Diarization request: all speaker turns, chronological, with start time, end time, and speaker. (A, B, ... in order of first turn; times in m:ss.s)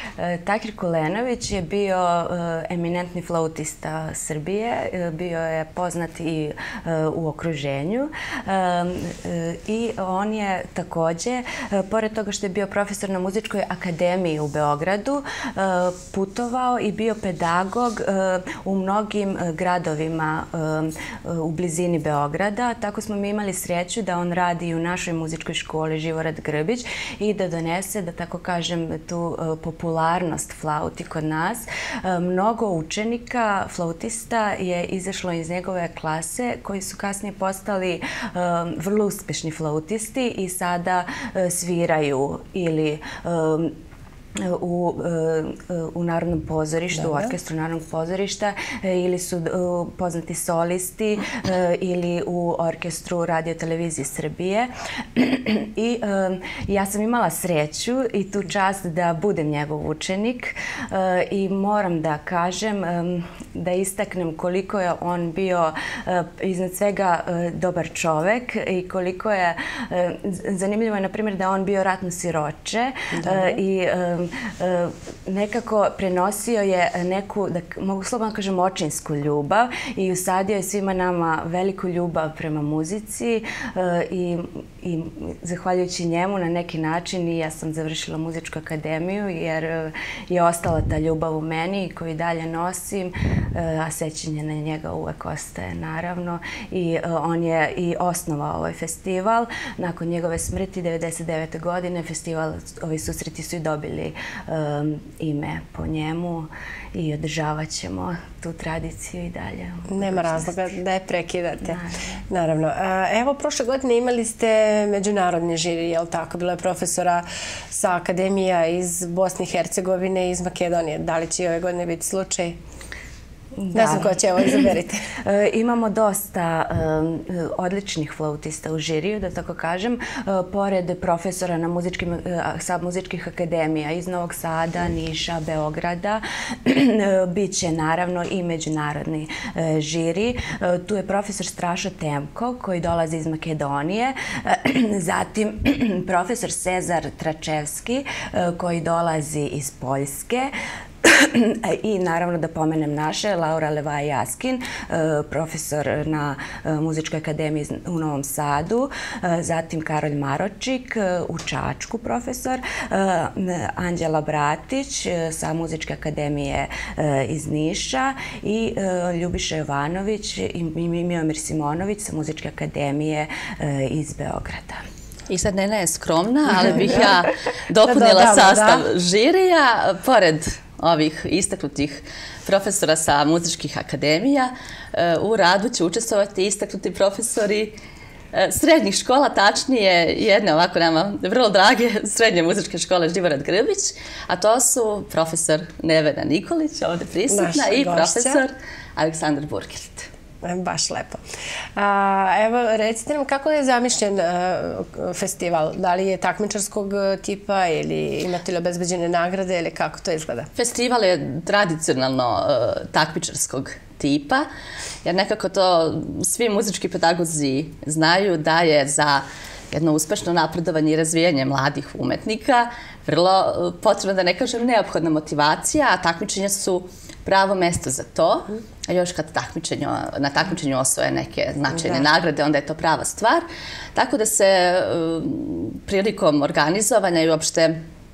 0:00.2-0:43.7 A
0:44.4-1:50.7 A
1:49.9-1:51.8 B
1:51.6-1:52.2 A
1:52.3-2:02.6 B
2:03.6-2:30.5 A
2:03.7-2:05.1 B
2:31.0-2:54.8 A
2:55.3-3:07.8 C
2:56.5-2:57.2 B
2:57.8-2:58.8 B
3:08.3-3:20.1 C
3:17.3-3:18.4 B
3:20.4-3:21.2 B
3:21.8-3:30.5 B
3:30.6-3:34.5 C
3:35.0-3:57.8 C